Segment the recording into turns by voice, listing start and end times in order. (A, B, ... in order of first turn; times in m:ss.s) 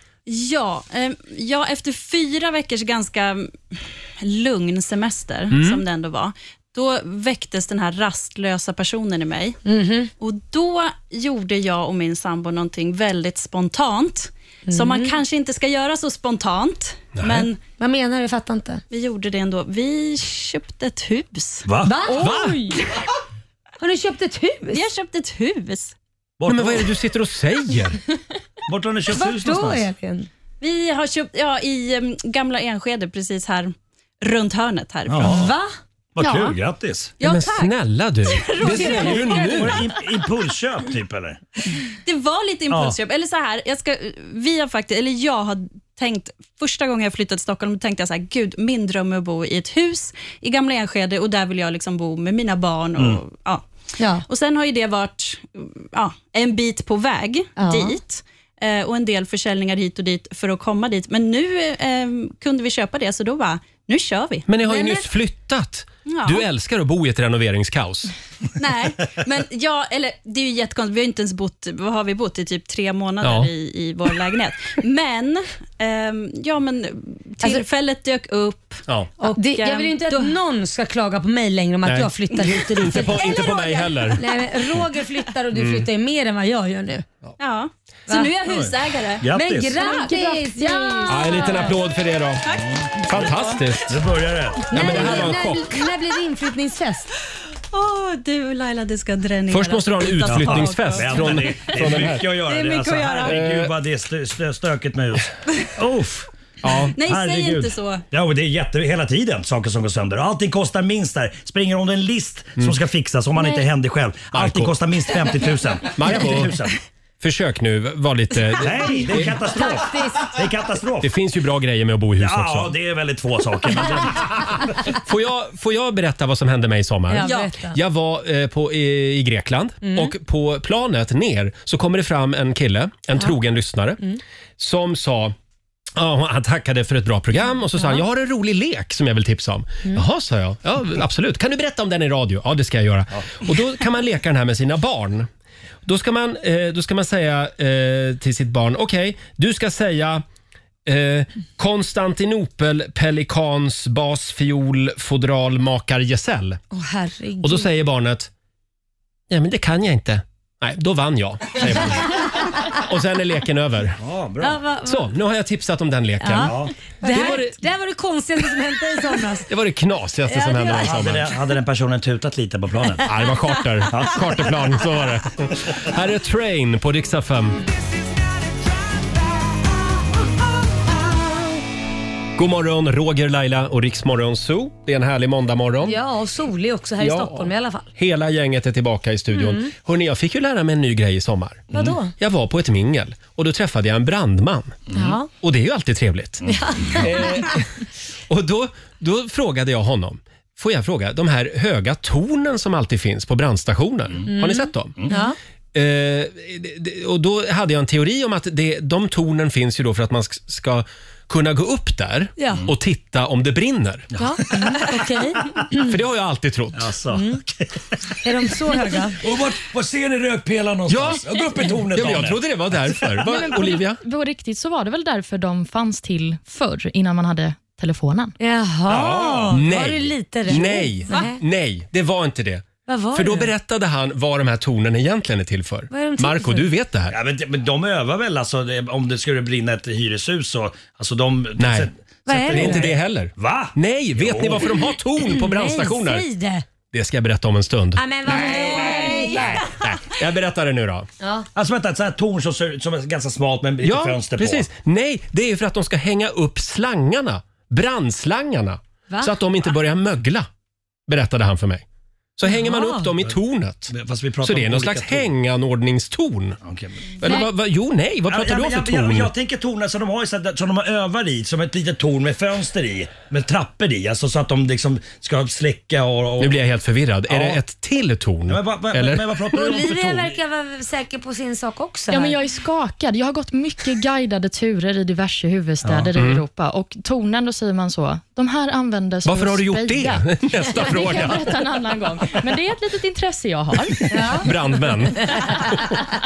0:00.2-0:09.6 A
0:05.5-0:05.8 B
0:09.6-0:10.1 C
0:10.2-0:17.6 A
0:14.7-0:15.1 C
0:17.2-0:17.5 B
0:17.8-0:18.8 C
0:18.9-0:21.6 A
0:21.6-0:22.1 D
0:21.8-0:22.7 C
0:22.2-0:22.7 B
0:22.2-0:22.5 E
0:23.8-0:24.8 C
0:24.7-0:25.9 A
0:26.4-0:26.9 D
0:26.5-0:28.0 B
0:28.7-0:29.9 D
0:29.1-0:30.3 C
0:30.6-0:35.3 A
0:35.1-0:35.5 D
0:35.2-0:35.7 C
0:36.2-0:37.1 D
0:36.2-0:36.5 A
0:37.2-0:37.7 A
0:37.2-0:39.9 B
0:38.3-0:39.6 A
0:38.6-0:39.5 C
0:39.0-0:41.4 D
0:42.0-0:53.6 A
0:42.7-0:43.0 D
0:54.0-0:54.2 C
0:54.2-1:04.4 A
0:57.6-0:57.9 C
1:04.5-1:08.1 B
1:04.6-1:05.1 C
1:06.1-1:06.4 A
1:08.6-1:20.3 A
1:13.2-1:13.5 B
1:19.2-1:27.0 C
1:21.8-1:24.4 B
1:23.2-1:23.8 A
1:25.5-1:25.9 B
1:27.4-1:30.4 A
1:28.4-1:29.8 D
1:29.3-1:31.7 C
1:30.0-1:31.3 E
1:31.0-1:32.4 B
1:32.5-1:32.7 A
1:32.6-1:35.3 D
1:33.0-1:34.0 B
1:34.7-1:35.8 B
1:34.7-1:37.1 C
1:37.7-1:43.4 A
1:39.5-1:42.3 B
1:40.2-1:46.3 D
1:43.2-1:43.7 B
1:46.6-1:46.9 B
1:46.9-1:56.8 D
1:47.0-1:48.0 A
1:54.3-1:54.7 B
1:55.9-1:56.6 B
1:57.2-1:59.4 B
1:58.6-2:01.1 D
1:58.9-2:00.4 C
2:01.0-2:02.7 B
2:02.2-2:04.6 D
2:04.9-2:14.0 B
2:07.1-2:07.8 C
2:09.8-2:10.1 C
2:14.6-2:15.4 B
2:15.9-2:25.3 B
2:17.8-2:18.0 C
2:25.8-2:30.2 B
2:30.8-2:36.6 B
2:36.7-2:37.7 C
2:37.4-2:38.3 B
2:39.3-2:44.0 B
2:44.0-2:44.6 D
2:44.4-2:45.0 C
2:44.8-2:47.6 B
2:46.2-2:49.5 C
2:46.4-2:46.7 D
2:49.5-2:51.3 B
2:50.3-2:51.0 C
2:50.8-2:53.1 D
2:53.0-2:57.6 B
2:53.9-2:54.6 D
3:02.4-3:06.0 B
3:05.8-3:07.9 C
3:07.0-3:17.7 B
3:09.3-3:09.7 C
3:11.7-3:12.1 C
3:14.9-3:15.3 C
3:16.4-3:17.5 C
3:18.3-3:25.0 B
3:24.3-3:25.4 C
3:25.7-3:34.1 B
3:32.4-3:32.6 C
3:34.2-3:35.9 C
3:35.8-3:36.9 B
3:36.7-3:37.9 D
3:37.1-3:37.4 C
3:38.2-3:39.2 C
3:39.2-3:43.2 D
3:40.9-3:44.0 B
3:43.2-3:48.3 E
3:48.4-3:51.4 C
3:48.9-3:49.6 D
3:49.5-3:57.1 B
3:52.8-3:53.5 C
3:55.9-3:56.7 C
3:57.1-4:04.7 D
4:01.6-4:01.9 B
4:02.3-4:02.8 C
4:02.5-4:06.3 B
4:05.3-4:06.6 C
4:06.9-4:11.1 B
4:08.0-4:09.6 C
4:08.4-4:09.6 D
4:11.2-4:11.4 C
4:11.6-4:14.7 D
4:13.8-4:20.5 B
4:21.1-4:21.8 B
4:22.4-4:26.6 B
4:22.4-4:23.1 C
4:23.9-4:25.3 D
4:26.6-4:27.0 D
4:27.2-4:29.3 B
4:28.3-4:36.6 D
4:36.4-4:39.3 B
4:37.3-4:37.6 D
4:38.5-4:40.4 D
4:39.5-4:42.3 C
4:42.1-4:54.5 E
4:45.8-4:46.1 D
4:46.1-4:46.4 B
4:49.2-4:51.6 B
4:54.1-4:54.5 C
4:54.4-4:56.0 B
4:55.2-4:55.5 C